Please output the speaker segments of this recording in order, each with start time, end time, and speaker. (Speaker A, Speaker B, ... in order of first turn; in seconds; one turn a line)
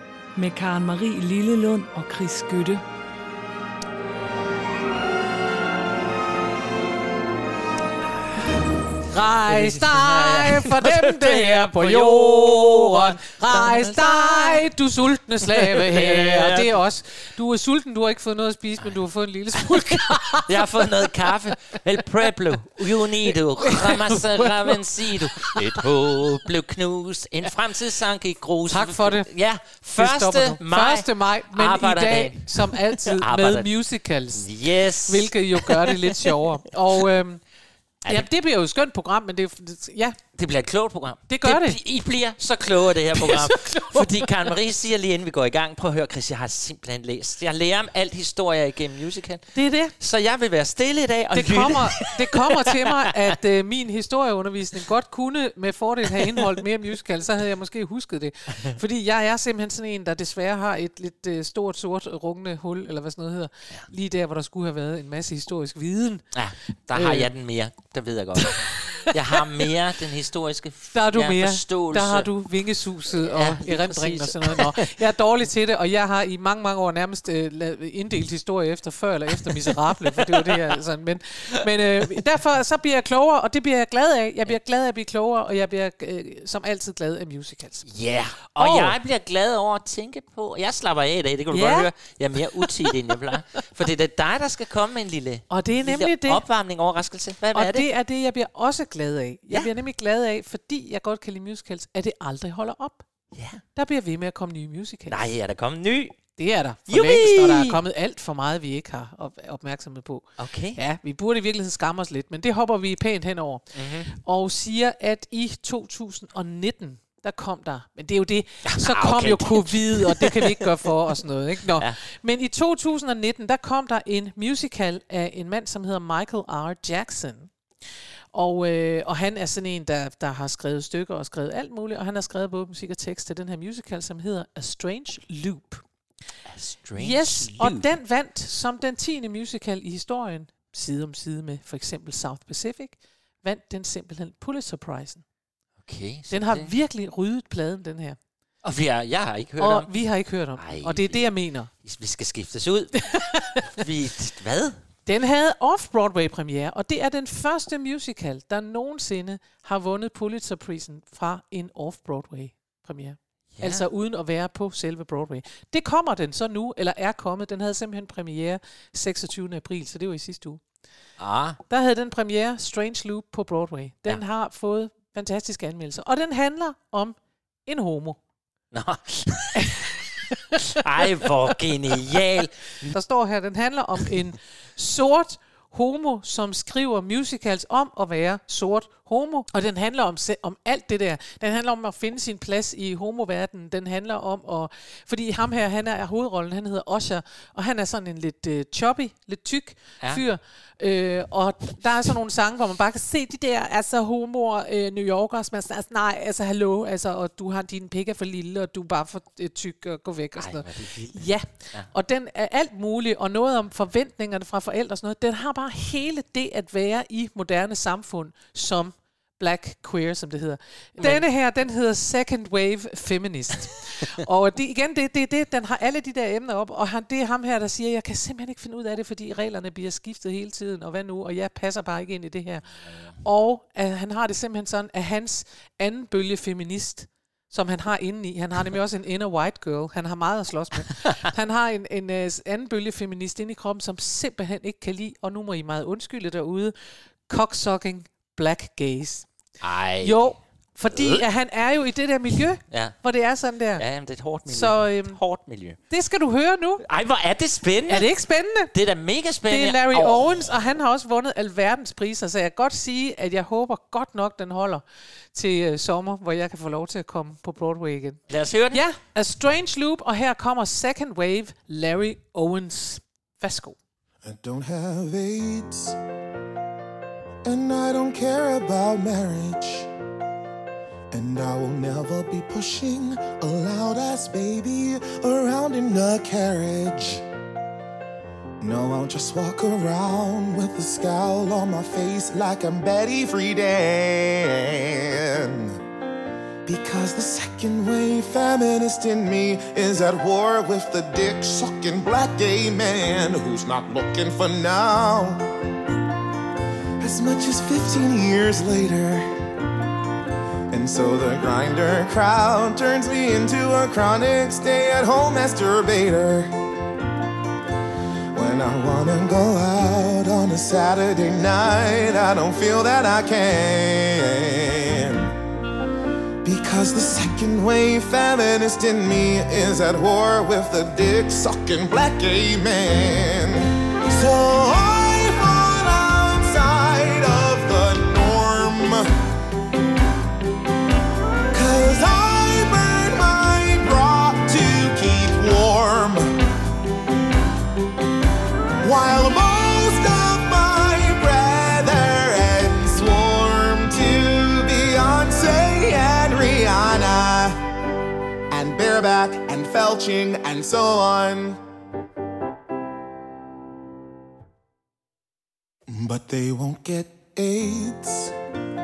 Speaker A: 0.4-2.8
Speaker B: 9.1-21.1
Speaker C: 9.5-14.6
Speaker C: 15.5-16.7
Speaker C: 19.6-33.7
Speaker B: 23.3-25.9
Speaker B: 28.7-29.3
Speaker B: 30.0-34.5
Speaker C: 34.3-36.3
Speaker B: 35.1-37.4
Speaker B: 38.1-40.2
Speaker C: 40.4-53.0
Speaker B: 41.3-41.8
Speaker B: 43.1-44.5
Speaker B: 49.5-49.9
Speaker B: 51.3-66.3
Speaker C: 56.2-56.4
Speaker C: 66.3-72.4
Speaker B: 66.9-67.3
Speaker B: 68.4-69.4
Speaker B: 70.9-87.9
Speaker C: 73.1-75.0
Speaker C: 80.1-80.5
Speaker C: 87.9-97.9
Speaker B: 88.6-89.0
Speaker B: 91.5-91.9
Speaker B: 92.5-93.2
Speaker B: 95.5-96.4
Speaker B: 97.5-103.1
Speaker C: 103.3-103.6
Speaker B: 103.8-105.2
Speaker C: 105.1-106.2
Speaker B: 106.4-127.5
Speaker C: 106.9-107.8
Speaker C: 110.4-110.8
Speaker C: 113.7-114.1
Speaker C: 118.7-120.5
Speaker C: 121.7-122.0
Speaker B: 128.3-135.8
Speaker C: 136.5-137.9
Speaker B: 137.0-145.2
Speaker C: 145.8-146.7
Speaker B: 146.3-148.2
Speaker C: 148.6-149.9
Speaker B: 149.6-151.7
Speaker C: 150.6-154.8
Speaker B: 153.2-153.6
Speaker B: 155.1-170.6
Speaker C: 163.6-163.8
Speaker C: 171.2-171.6
Speaker B: 171.7-178.2
Speaker C: 178.7-179.9
Speaker B: 179.6-180.6
Speaker C: 180.6-182.9
Speaker B: 182.9-232.7
Speaker C: 210.4-211.9
Speaker C: 221.0-221.3
Speaker C: 232.8-233.2
Speaker B: 233.2-246.8
Speaker B: 247.3-249.3
Speaker C: 249.6-250.3
Speaker B: 250.0-253.8
Speaker C: 250.9-251.2
Speaker C: 252.7-253.0
Speaker C: 253.8-255.8
Speaker B: 254.5-255.2
Speaker B: 255.9-256.8
Speaker C: 256.8-258.1
Speaker B: 257.9-258.7
Speaker C: 258.7-260.6
Speaker B: 259.5-273.8
Speaker C: 268.3-268.8
Speaker D: 274.2-276.0
Speaker D: 277.4-279.9
Speaker D: 281.1-287.2
Speaker D: 288.6-295.8
Speaker D: 296.7-305.5
Speaker D: 307.0-309.3
Speaker D: 310.7-316.5
Speaker D: 318.3-325.4
Speaker D: 326.4-339.1
Speaker D: 341.5-346.4
Speaker D: 348.8-357.6
Speaker D: 358.5-361.6
Speaker D: 365.9-368.3